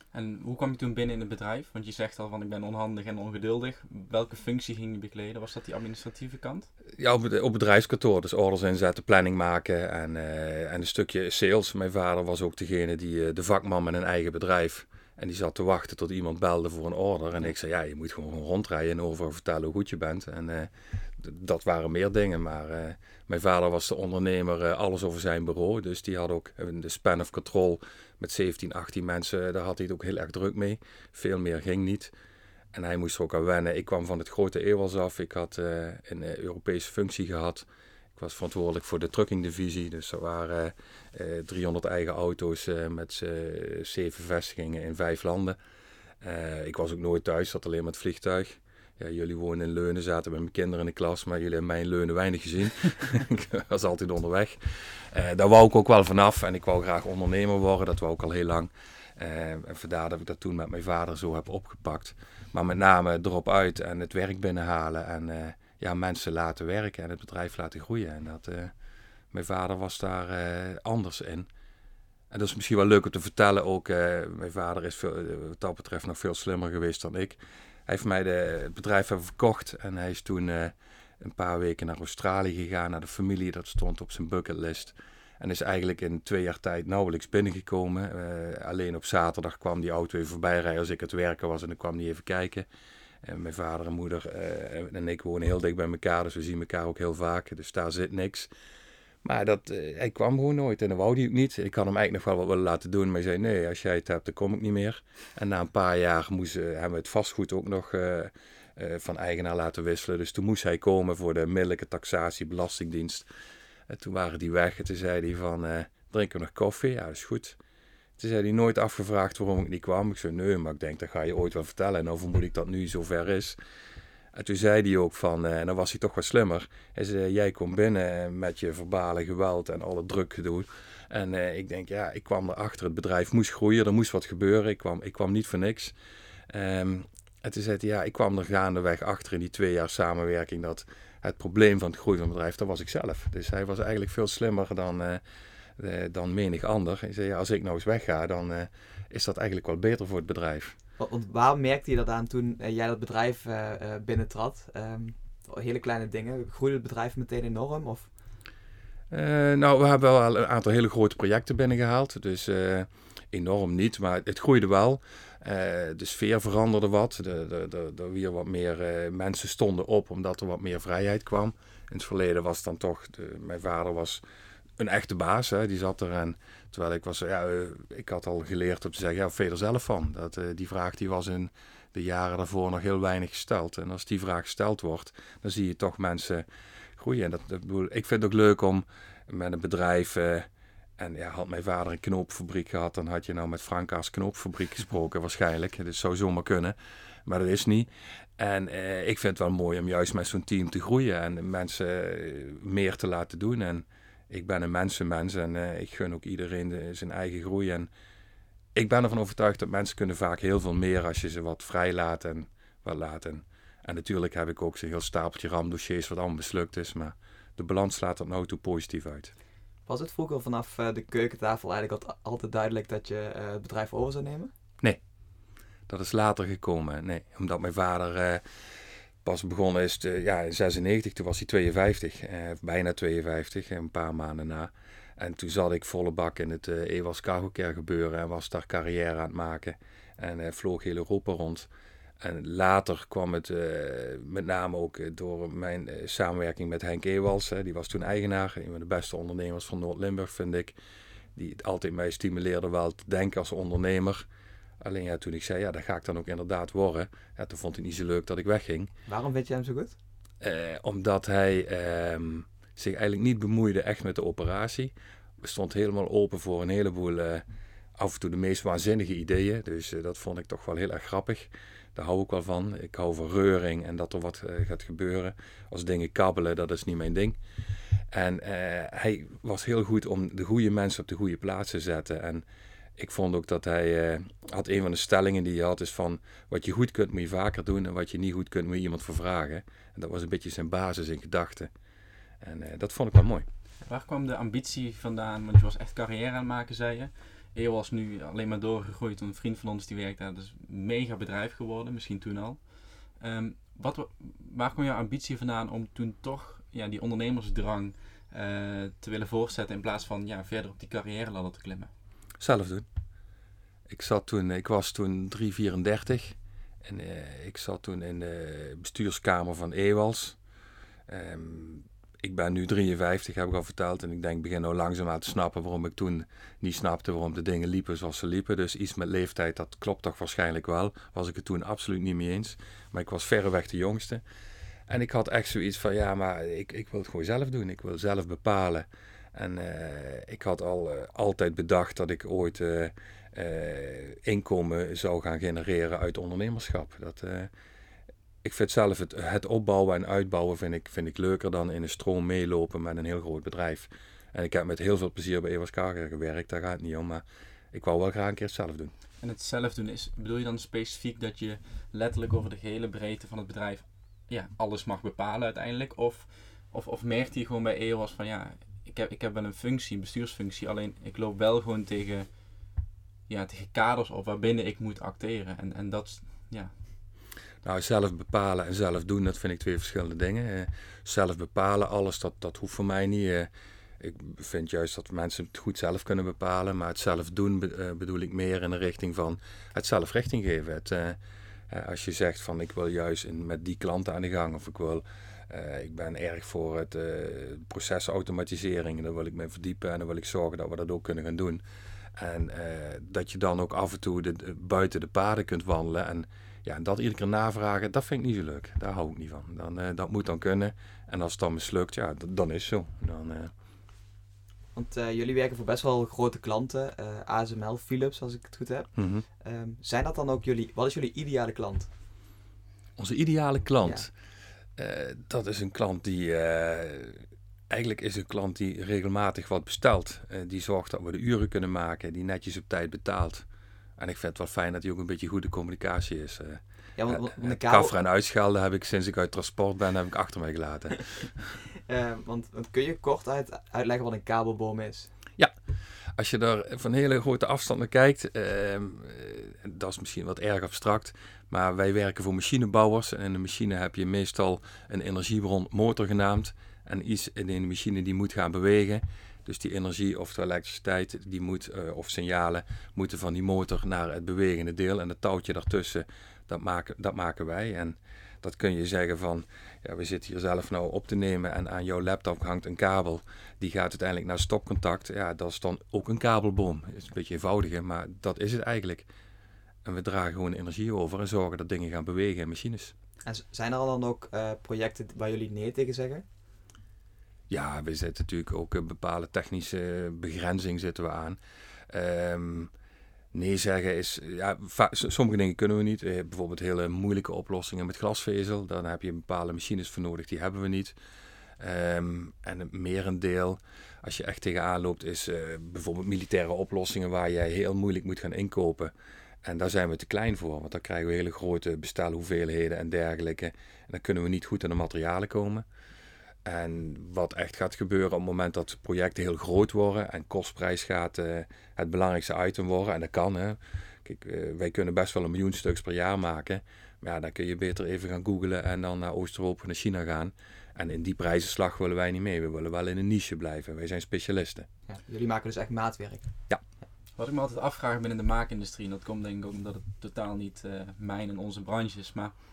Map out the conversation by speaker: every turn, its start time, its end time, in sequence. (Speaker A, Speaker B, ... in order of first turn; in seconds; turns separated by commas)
Speaker A: 0.1-6.7, Speaker B: 7.0-32.1, Speaker B: 32.7-45.6, Speaker B: 46.2-68.7, Speaker B: 69.3-71.5, Speaker B: 72.3-92.7, Speaker B: 93.2-98.5, Speaker B: 99.2-113.2, Speaker B: 113.9-117.6, Speaker B: 118.2-123.5, Speaker B: 124.3-135.9, Speaker B: 136.5-145.2, Speaker B: 145.8-150.7, Speaker C: 151.0-158.1, Speaker B: 159.1-174.2, Speaker B: 174.8-186.4, Speaker B: 187.0-190.5, Speaker B: 191.0-207.9, Speaker B: 208.7-219.3, Speaker C: 219.8-224.5, Speaker B: 225.9-228.4, Speaker B: 229.2-241.7, Speaker B: 242.2-250.7, Speaker B: 251.3-254.2, Speaker B: 254.8-258.9, Speaker C: 259.1-260.0, Speaker B: 260.4-267.4, Speaker B: 268.0-277.4, Speaker B: 278.1-282.4, Speaker B: 283.0-291.7, Speaker B: 292.4-293.4, Speaker A: 293.9-302.6, Speaker A: 303.2-311.9, Speaker B: 312.4-312.9, Speaker B: 313.9-320.4, Speaker B: 321.1-334.2, Speaker B: 334.9-347.5, Speaker B: 348.4-358.9, Speaker A: 359.2-372.3, Speaker A: 373.3-376.7, Speaker B: 377.6-391.2, Speaker B: 391.7-401.6, Speaker B: 402.2-413.5, Speaker C: 414.7-421.9, Speaker B: 418.9-419.2, Speaker B: 423.0-424.1, Speaker C: 423.8-424.1, Speaker B: 424.8-433.4, Speaker B: 434.0-441.5, Speaker C: 437.0-437.9, Speaker C: 441.9-445.1, Speaker B: 446.1-479.1, Speaker B: 479.8-482.9, Speaker C: 483.2-486.2, Speaker B: 487.5-491.4, Speaker B: 491.9-492.7, Speaker B: 493.3-500.9, Speaker B: 501.6-508.9, Speaker B: 509.4-515.6, Speaker B: 516.4-534.7, Speaker C: 534.9-536.3, Speaker A: 537.2-542.3